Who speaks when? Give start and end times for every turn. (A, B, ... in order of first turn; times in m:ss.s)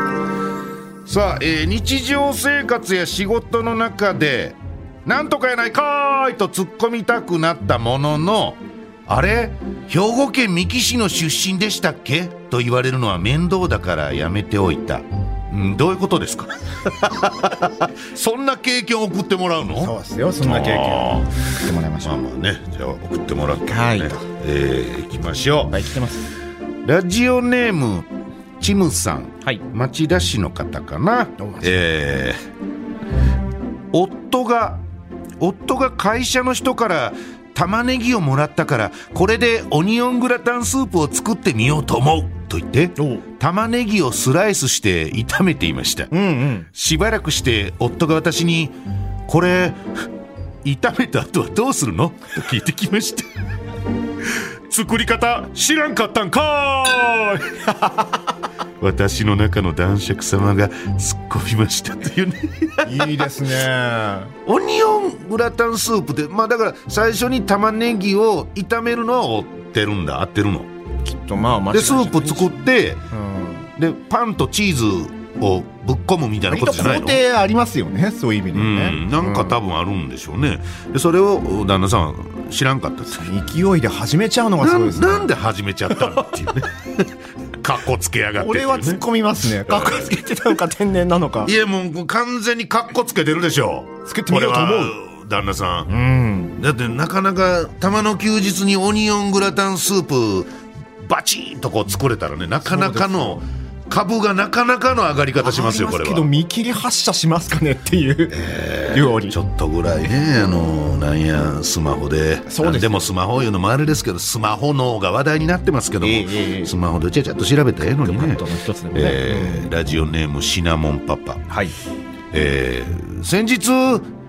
0:01.0-0:21.3 A
0:19.7-0:22.1 B
0:22.0-0:25.8 A
0:23.6-0:24.2 B
0:25.7-0:26.3 B
0:26.8-0:28.1 A
0:28.6-0:32.4 A
0:31.4-0:31.8 B
0:33.9-0:34.8 A
0:35.4-0:46.1 A
0:43.0-0:43.2 B
0:46.1-0:46.7 B
0:46.7-0:48.7 A
0:49.3-0:49.8 A
0:50.6-0:53.3 A
0:54.7-0:57.9 A
0:58.8-1:03.2 A
1:02.8-1:04.3 B
1:04.4-1:10.7 A
1:11.0-1:12.5 B
1:11.7-1:13.0 A
1:13.1-1:13.7 B
1:13.8-1:17.2 A
1:16.5-1:19.6 B
1:18.5-1:23.3 A
1:23.1-1:25.3 B
1:24.6-1:29.0 A
1:26.0-1:26.6 B
1:28.4-1:31.5 B
1:29.7-1:30.1 A
1:31.4-1:35.9 A
1:34.0-1:34.9 B
1:35.9-1:36.6 B
1:36.6-1:40.5 A
1:41.0-1:46.3 A
1:42.6-1:43.4 B
1:45.4-1:48.4 B
1:48.3-1:58.4 A
1:48.9-1:49.3 B
1:52.5-1:53.0 B
1:56.0-1:56.7 B
1:58.0-1:59.7 B
1:58.9-2:01.5 A
2:02.3-2:04.1 A